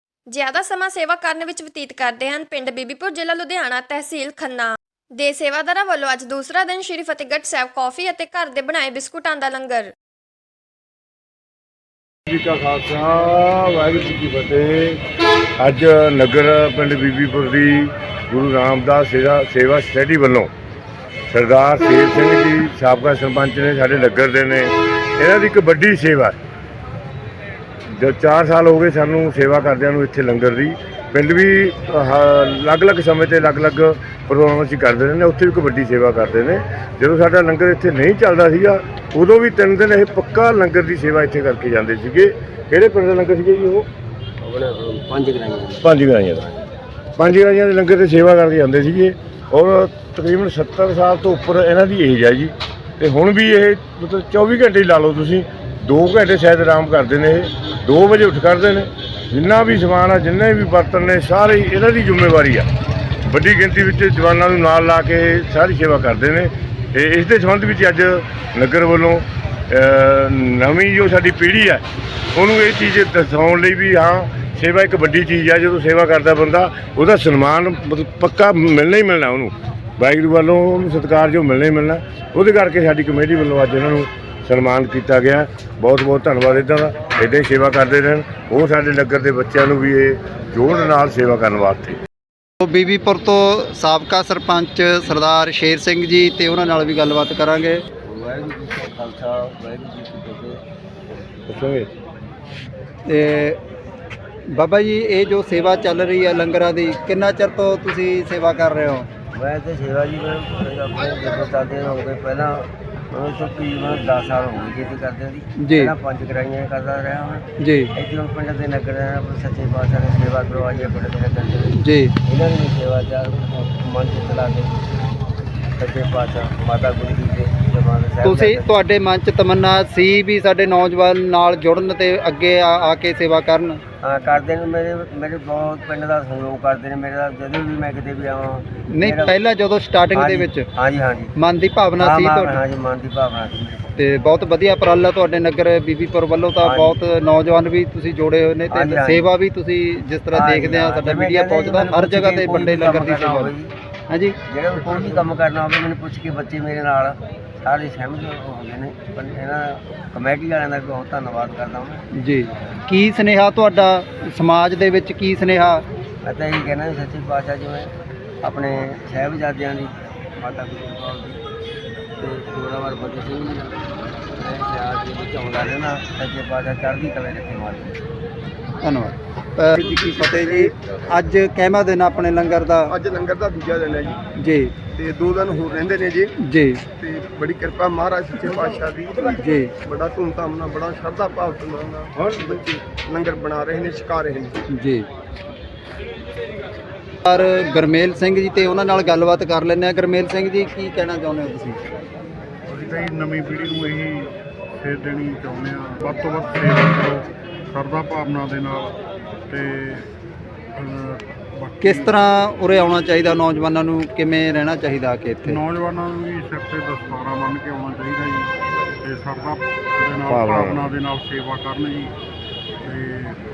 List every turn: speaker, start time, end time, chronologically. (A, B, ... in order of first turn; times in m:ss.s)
0:00.3-0:09.9 A
0:12.2-0:15.0 B
0:15.6-0:20.5 B
0:21.3-0:26.4 B
0:27.9-0:43.9 B
0:44.4-0:45.9 C
0:45.8-0:46.6 B
0:47.2-1:02.6 B
1:03.3-1:11.8 B
1:12.3-1:32.0 B
1:32.6-1:37.8 D
1:38.0-1:40.6 C
1:41.5-1:41.9 B
1:43.1-1:43.6 D
1:44.5-1:49.1 D
1:49.3-2:04.8 C
1:55.6-1:55.9 D
1:57.6-1:57.9 D
2:01.8-2:02.1 D
2:05.8-2:08.7 C
2:08.2-2:13.8 D
2:14.0-2:19.3 C
2:18.9-2:20.7 D
2:20.1-2:21.3 C
2:21.4-2:22.6 D
2:22.0-2:23.9 C
2:24.0-2:33.5 D
2:26.6-2:27.0 C
2:28.7-2:29.3 C
2:30.3-2:33.7 C
2:34.1-2:34.4 D
2:34.4-2:42.0 C
2:42.2-2:45.8 D
2:46.2-2:51.4 C
2:52.2-2:58.0 C
2:58.8-3:02.9 D
2:59.8-3:00.7 E
3:02.9-3:04.2 E
3:04.4-3:04.7 D
3:04.9-3:06.3 E
3:06.4-3:06.8 D
3:07.0-3:14.6 E
3:09.4-3:09.7 D
3:14.7-3:15.1 D
3:17.2-3:21.8 D
3:22.7-3:28.9 F
3:29.5-3:30.1 F
3:30.8-3:32.2 F
3:31.8-3:35.6 D
3:35.4-3:42.1 F
3:40.3-3:40.8 B
3:42.8-3:43.4 F